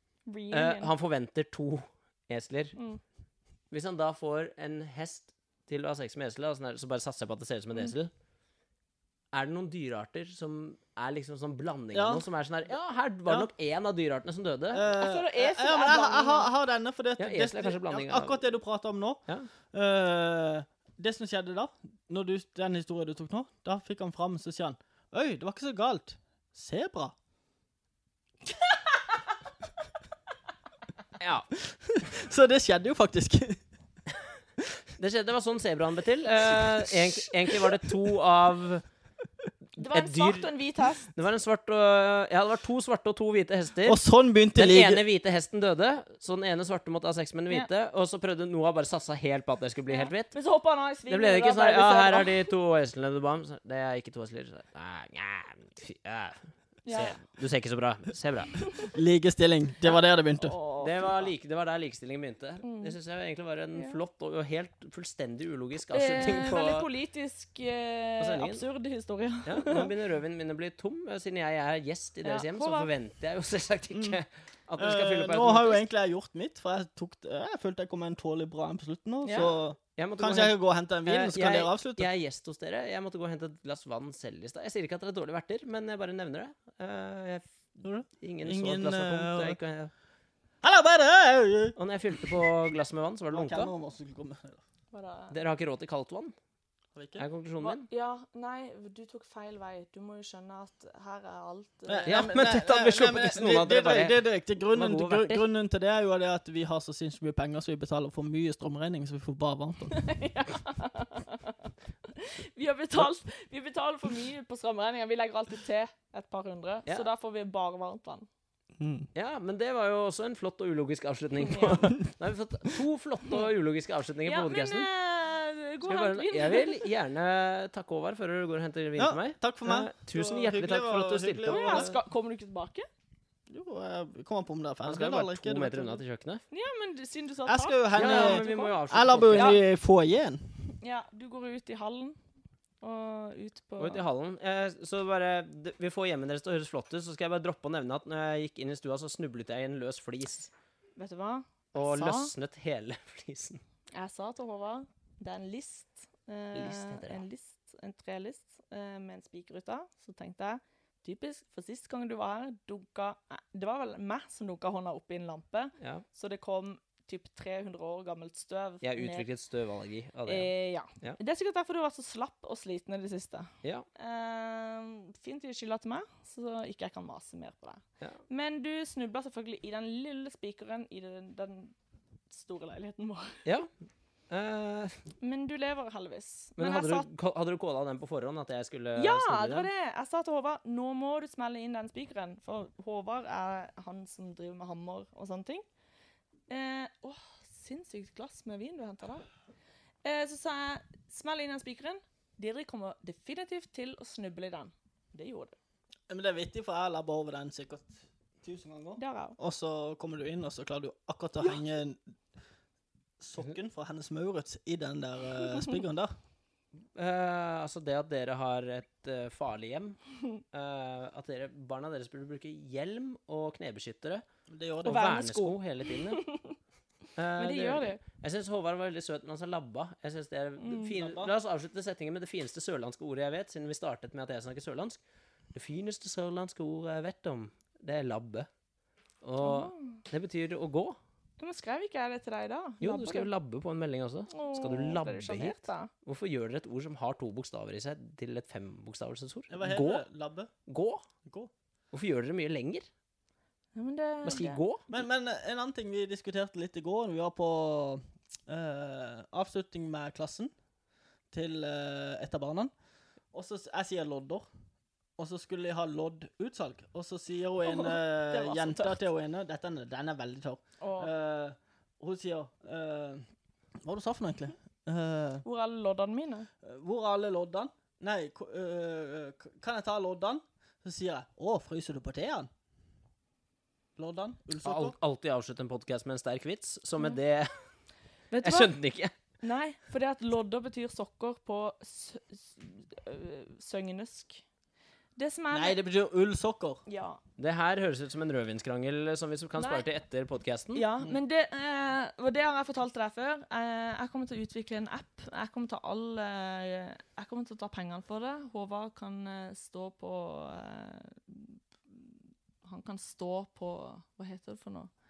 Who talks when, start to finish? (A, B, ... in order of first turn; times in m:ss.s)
0:00.3-0:00.9 A
0:00.5-0:02.8 B
0:02.8-0:03.0 A
0:03.7-0:08.1 B
0:09.3-0:14.9 B
0:11.9-0:12.2 C
0:14.7-0:27.1 C
0:14.9-0:16.5 A
0:17.2-0:18.4 B
0:31.2-0:31.5 B
0:31.7-0:33.6 C
0:35.0-0:38.8 B
0:36.9-0:37.9 C
0:39.8-0:40.5 B
0:39.8-0:41.1 A
0:41.1-0:44.0 B
0:43.8-0:45.0 C
0:44.6-0:50.4 B
0:49.9-0:52.5 A
0:51.1-0:58.7 B
0:56.8-0:57.2 A
0:58.9-1:00.6 C
1:00.4-1:01.3 A
1:00.8-1:06.9 B
1:02.6-1:03.0 A
1:05.9-1:09.9 A
1:08.2-1:08.7 B
1:09.5-1:15.8 B
1:12.2-1:12.9 A
1:14.8-1:22.1 C
1:19.2-1:19.5 A
1:20.0-1:29.9 B
1:27.8-1:29.6 C
1:30.6-1:32.4 C
1:31.8-1:33.7 B
1:33.3-1:34.6 C
1:34.9-1:35.4 A
1:35.3-1:36.3 B
1:36.9-1:37.2 C
1:37.2-1:37.9 B
1:37.6-1:42.2 A
1:41.9-1:50.0 C
1:42.1-1:45.5 B
1:49.9-1:58.3 A
1:58.8-1:59.1 C
1:59.2-2:04.9 B
2:01.4-2:01.9 A
2:04.2-2:06.8 A
2:05.9-2:11.9 B
2:09.0-2:12.0 C
2:11.5-2:12.9 A
2:13.5-2:16.0 C
2:14.8-2:16.4 B
2:16.5-2:18.8 A
2:17.5-2:20.6 C
2:18.0-2:19.6 B
2:19.4-2:19.6 A
2:20.8-2:22.2 A
2:22.8-2:24.0 A
2:23.8-2:30.5 B
2:31.0-2:32.3 A
2:31.7-2:33.6 B
2:33.9-2:49.3 A
2:36.6-2:37.2 B
2:45.8-2:46.0 B
2:48.8-2:51.2 B
2:50.3-3:01.8 A
3:02.3-3:03.4 A
3:04.3-3:05.0 B
3:05.2-3:07.1 A
3:06.6-3:09.7 B
3:09.0-3:15.7 A
3:16.5-3:19.3 A
3:20.0-3:25.6 A
3:26.1-3:32.0 C
3:29.0-3:29.4 A
3:33.2-3:36.1 C
3:35.5-3:35.8 A
3:37.0-3:40.0 B
3:40.5-3:44.2 B
3:44.5-3:45.1 C
3:44.8-3:45.6 A
3:44.8-3:46.2 B
3:46.1-3:46.6 A
3:47.2-3:55.0 B
3:47.4-3:48.0 A
3:50.6-3:51.0 A
3:51.0-3:51.3 C
3:55.5-3:58.5 B
3:59.2-4:01.0 B
3:59.4-4:00.0 A
4:01.4-4:03.3 A
4:02.8-4:10.0 B
4:04.3-4:05.9 A
4:09.5-4:10.5 C
4:10.7-4:11.0 B
4:11.2-4:11.5 C
4:11.9-4:12.9 B
4:13.8-4:14.6 A
4:14.2-4:14.9 B
4:14.9-4:20.5 C
4:21.3-4:22.7 C
4:23.3-4:24.5 C
4:25.2-4:33.3 C
4:27.6-4:29.0 A
4:30.8-4:31.1 A
4:33.8-4:35.4 C
4:35.4-4:36.5 A
4:36.6-4:42.5 C
4:44.0-4:45.0 C
4:44.6-4:47.5 B
4:48.3-4:48.8 A
4:48.4-4:49.1 B
4:49.4-4:54.4 A
4:55.2-4:55.8 A
4:55.5-4:56.8 C
4:56.9-4:57.2 A
4:57.4-5:00.9 B
4:59.6-4:59.9 A
5:00.7-5:12.1 A
5:12.6-5:14.9 A